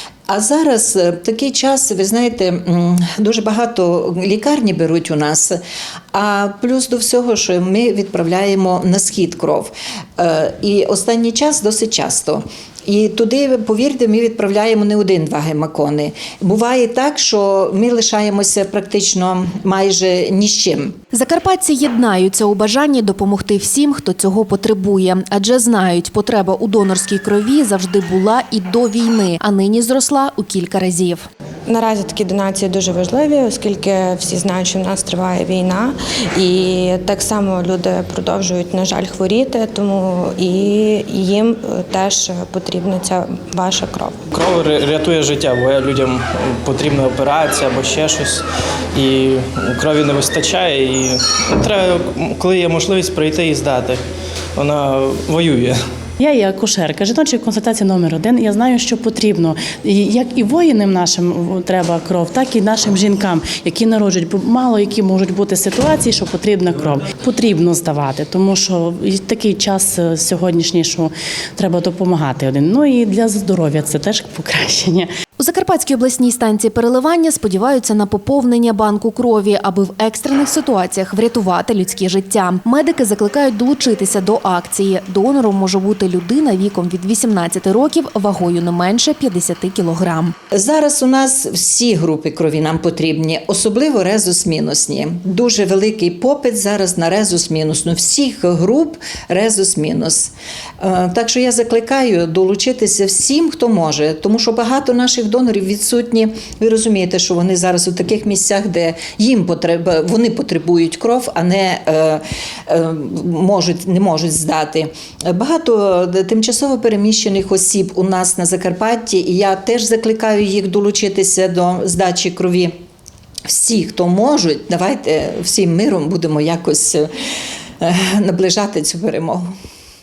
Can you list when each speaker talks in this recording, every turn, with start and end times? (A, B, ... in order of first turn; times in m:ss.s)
0:00.3-0:05.6 A
0:06.1-0:21.0 A
0:21.1-0:31.3 B
0:31.7-0:44.3 C
0:44.3-0:48.4 D
0:48.9-0:54.0 D
0:54.6-0:55.8 D
0:56.2-1:15.1 E
1:15.4-1:30.3 B
1:30.5-2:02.7 A
2:03.5-2:07.1 A
2:07.8-2:09.4 A